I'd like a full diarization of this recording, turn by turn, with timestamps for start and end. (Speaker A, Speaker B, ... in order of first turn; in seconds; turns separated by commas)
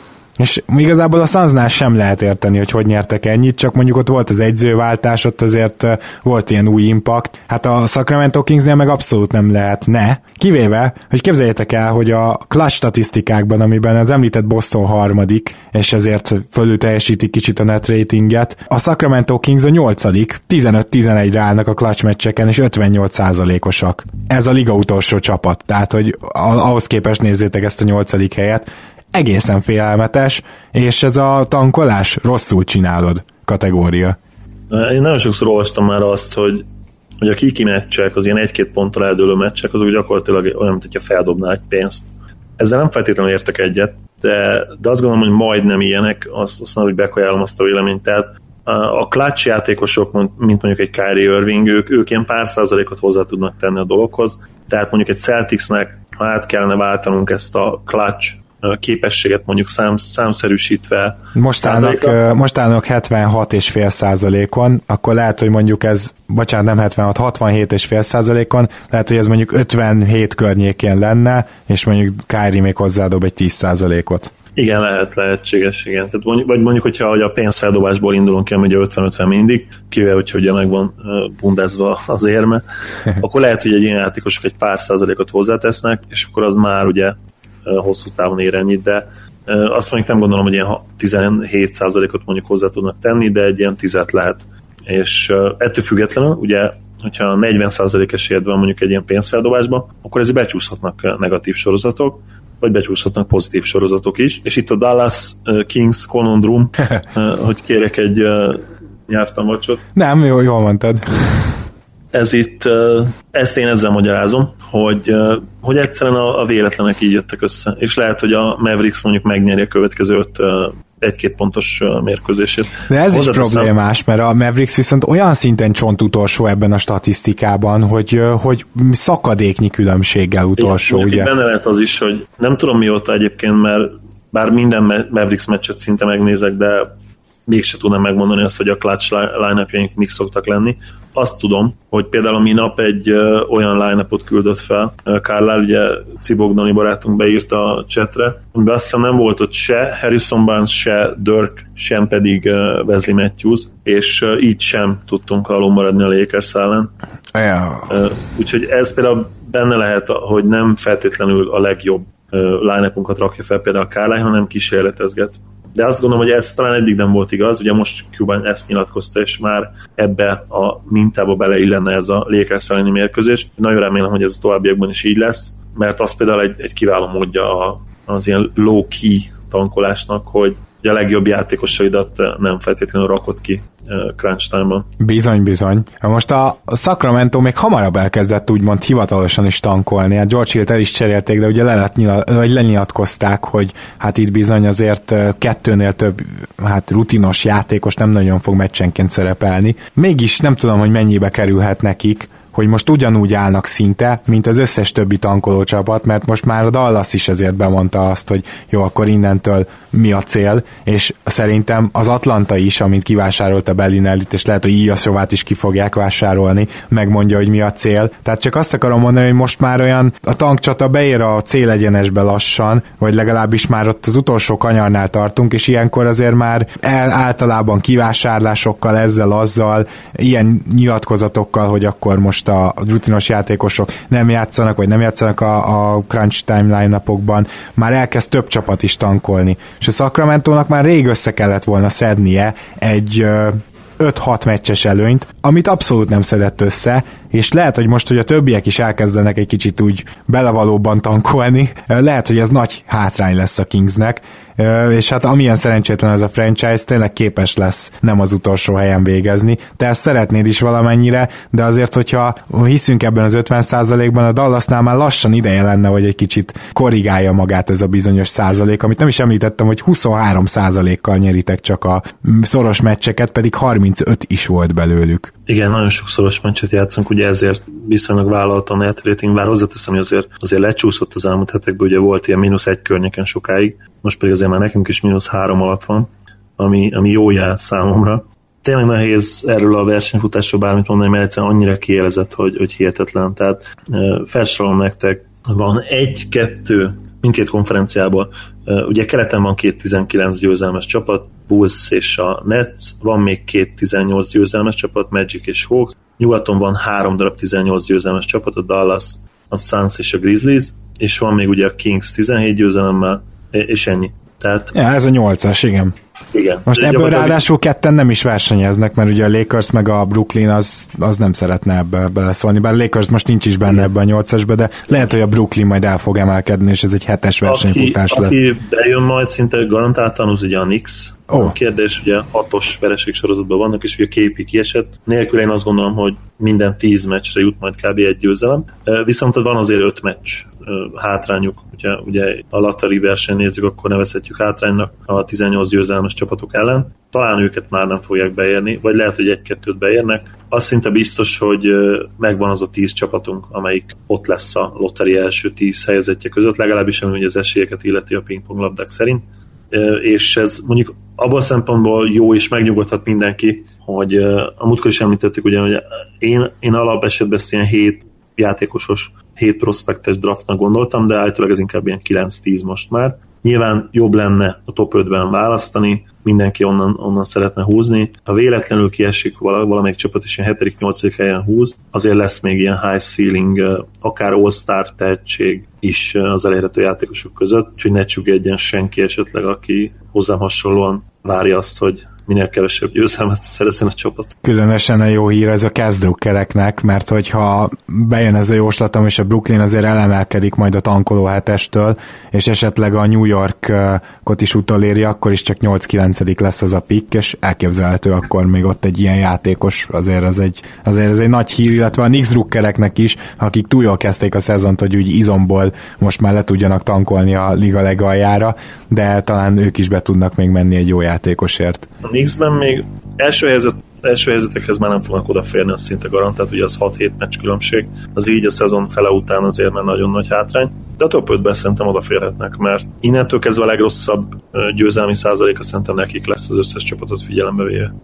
Speaker A: 0.4-34.2, Speaker B: 34.7-36.6, Speaker B: 37.2-62.2, Speaker A: 61.3-74.3, Speaker B: 74.5-82.6, Speaker B: 83.2-109.8, Speaker A: 109.9-111.5, Speaker B: 112.1-123.7, Speaker A: 122.9-131.3, Speaker B: 130.6-136.9, Speaker B: 137.4-156.9, Speaker A: 157.3-157.9, Speaker B: 157.9-184.9, Speaker A: 185.0-275.3, Speaker B: 275.4-314.7, Speaker A: 314.7-315.9, Speaker B: 316.3-317.4, Speaker A: 316.7-328.4, Speaker B: 327.4-394.3, Speaker A: 394.4-421.9, Speaker B: 422.0-437.9